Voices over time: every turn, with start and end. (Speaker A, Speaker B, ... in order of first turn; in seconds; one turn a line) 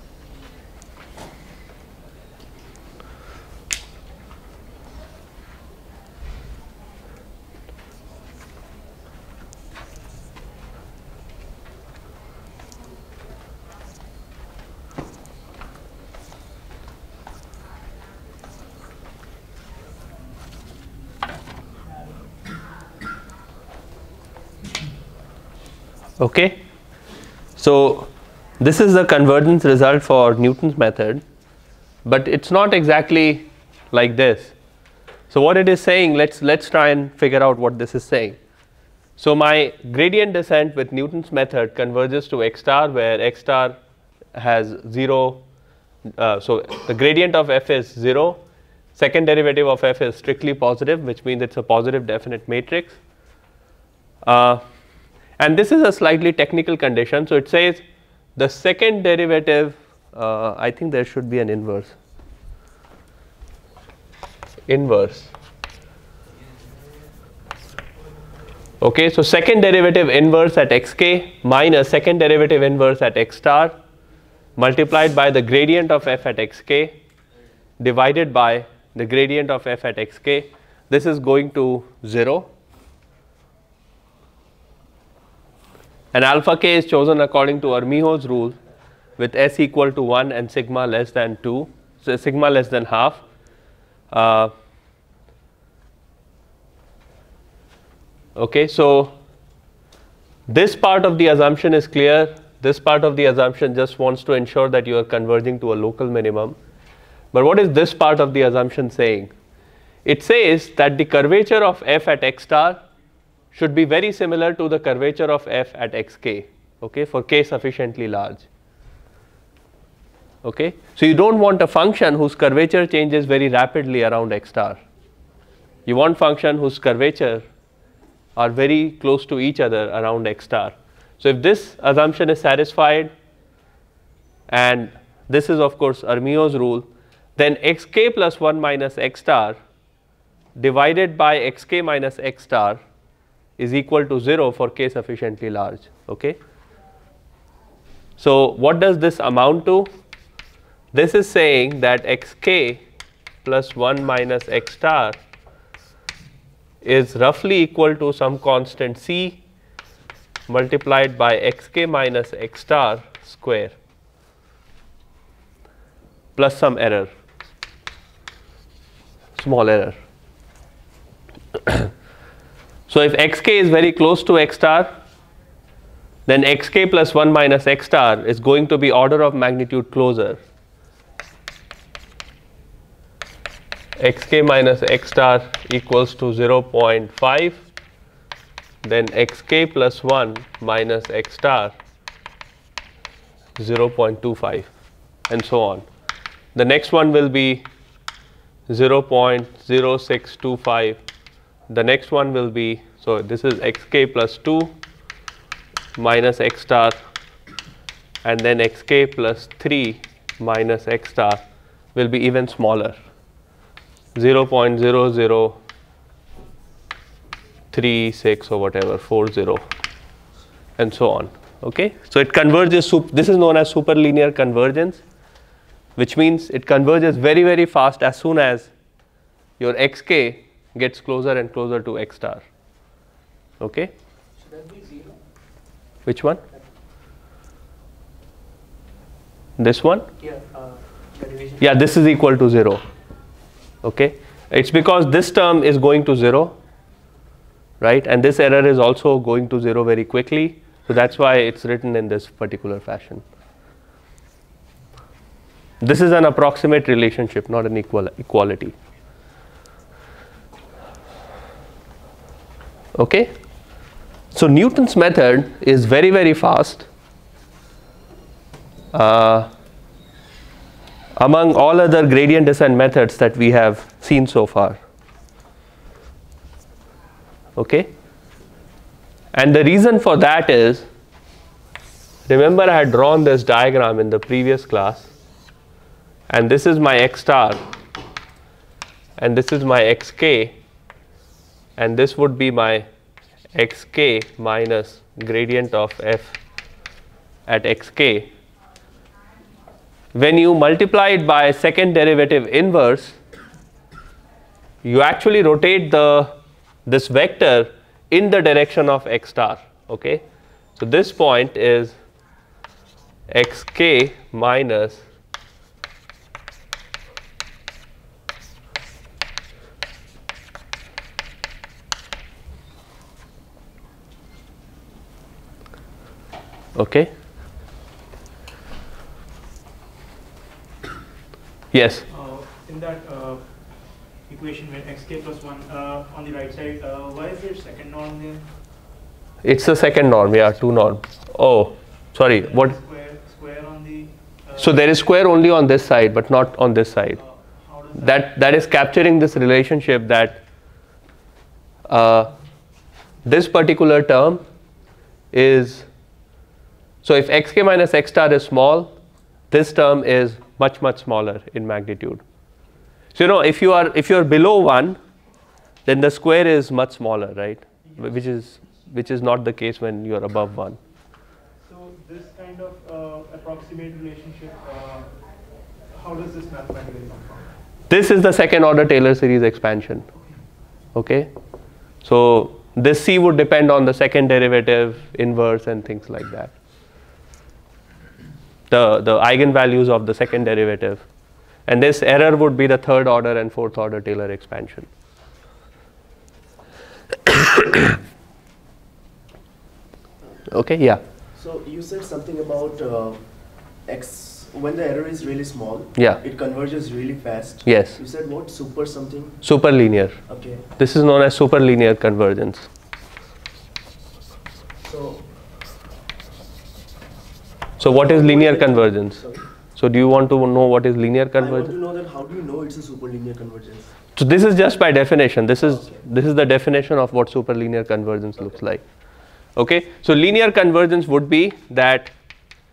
Speaker A: 26.2-26.6
Speaker A: 27.6-31.2
Speaker A: 32.0-34.5
Speaker A: 35.3-38.4
Speaker A: 39.2-43.8
Speaker A: 44.3-45.4
Speaker A: 46.2-48.4
Speaker A: 48.9-53.0
Speaker A: 54.2-54.6
Speaker A: 55.4-57.8
Speaker A: 58.4-62.0
Speaker A: 64.7-65.3
Speaker A: 68.8-73.8
Speaker A: 74.5-77.0
Speaker A: 77.8-82.5
Speaker A: 86.1-88.6
Speaker A: 89.2-93.2
Speaker A: 94.1-94.5
Speaker A: 98.3-99.2
Speaker A: 100.5-106.5
Speaker A: 107.3-109.3
Speaker A: 110.0-112.8
Speaker A: 113.5-118.5
Speaker A: 120.4-124.8
Speaker A: 125.8-127.5
Speaker A: 128.3-133.1
Speaker A: 134.5-139.6
Speaker A: 140.6-142.8
Speaker A: 143.6-146.4
Speaker A: 148.2-149.9
Speaker A: 150.9-152.8
Speaker A: 153.4-155.2
Speaker A: 156.8-159.4
Speaker A: 160.5-163.8
Speaker A: 166.3-167.1
Speaker A: 169.4-169.9
Speaker A: 172.9-174.9
Speaker A: 176.2-180.4
Speaker A: 184.0-187.6
Speaker A: 188.8-191.8
Speaker A: 193.6-194.7
Speaker A: 195.3-195.8
Speaker A: 196.5-197.7
Speaker A: 198.7-201.0
Speaker A: 201.7-204.7
Speaker A: 205.9-207.0
Speaker A: 208.2-211.4
Speaker A: 211.9-213.0
Speaker A: 214.1-215.6
Speaker A: 217.7-219.7
Speaker A: 220.8-225.0
Speaker A: 225.9-228.7
Speaker A: 229.6-232.4
Speaker A: 233.6-233.9
Speaker B: 234.5-235.1
Speaker A: 236.0-236.4
Speaker A: 239.6-240.1
Speaker B: 240.2-241.6
Speaker A: 241.6-242.8
Speaker A: 243.8-246.6
Speaker A: 247.8-253.2
Speaker A: 255.8-258.7
Speaker A: 262.9-263.3
Speaker A: 264.3-266.9
Speaker A: 268.9-269.5
Speaker A: 271.2-274.8
Speaker A: 277.6-277.9
Speaker A: 279.3-280.9
Speaker A: 282.3-285.1
Speaker A: 286.3-287.6
Speaker A: 289.2-290.6
Speaker A: 291.8-292.9
Speaker A: 293.5-296.4
Speaker A: 297.5-298.3
Speaker A: 300.1-303.2
Speaker A: 304.8-306.3
Speaker A: 306.9-310.2
Speaker A: 310.8-312.0
Speaker A: 313.3-315.0
Speaker A: 326.8-327.1
Speaker A: 331.7-332.0
Speaker C: 332.1-338.5
Speaker A: 339.4-342.8
Speaker C: 342.3-344.8
Speaker A: 344.6-347.2
Speaker C: 347.2-348.2
Speaker A: 348.0-350.4
Speaker A: 351.9-352.3
Speaker A: 353.2-354.4
Speaker A: 355.3-355.9
Speaker A: 357.0-358.9
Speaker A: 359.5-362.2
Speaker A: 363.1-365.0
Speaker A: 365.9-370.8
Speaker C: 371.6-375.2
Speaker C: 375.9-377.5
Speaker A: 377.9-380.1
Speaker A: 380.9-381.3
Speaker A: 382.0-386.5
Speaker A: 388.7-391.1
Speaker A: 391.6-394.9
Speaker A: 400.5-401.0
Speaker B: 401.3-409.4
Speaker A: 407.6-408.0
Speaker A: 409.4-410.2
Speaker B: 410.3-410.6
Speaker A: 410.8-412.7
Speaker B: 414.8-415.2
Speaker A: 417.8-421.7
Speaker B: 417.8-419.4
Speaker B: 421.4-423.9
Speaker A: 424.1-428.8
Speaker B: 425.6-426.0
Speaker A: 429.6-432.1